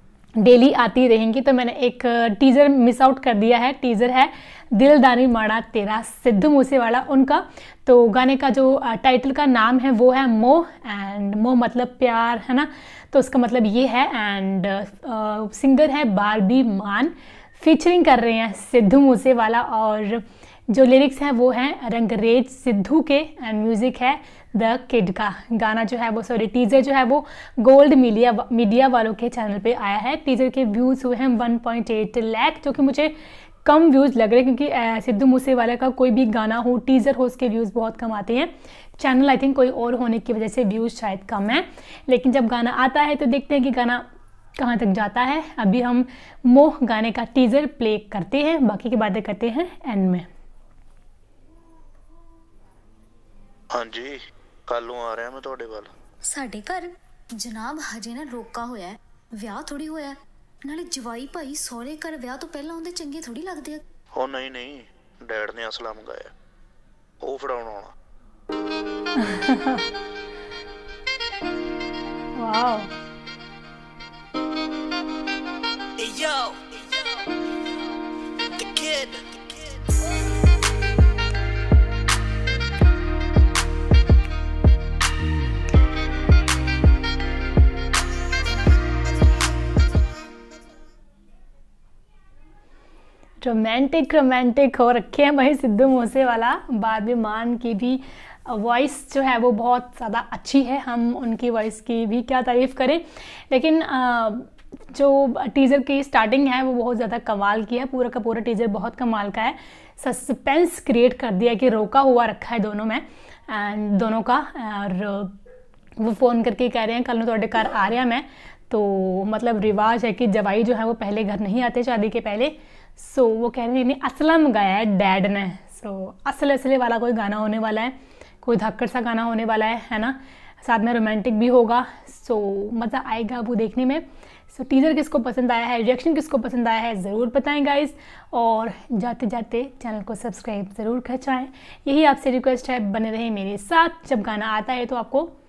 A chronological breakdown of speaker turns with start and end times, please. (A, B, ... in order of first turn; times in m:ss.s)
0:00.4-0:33.1 A
0:33.6-0:44.0 A
0:44.6-0:50.3 A
0:53.7-0:55.9 B
0:56.2-1:03.8 C
1:04.2-1:06.3 B
1:07.2-1:07.9 B
1:09.2-1:09.8 A
1:12.4-1:12.9 A
1:16.0-1:17.0 D
1:18.5-1:19.6 D
1:33.4-1:55.3 A
1:56.0-2:25.3 A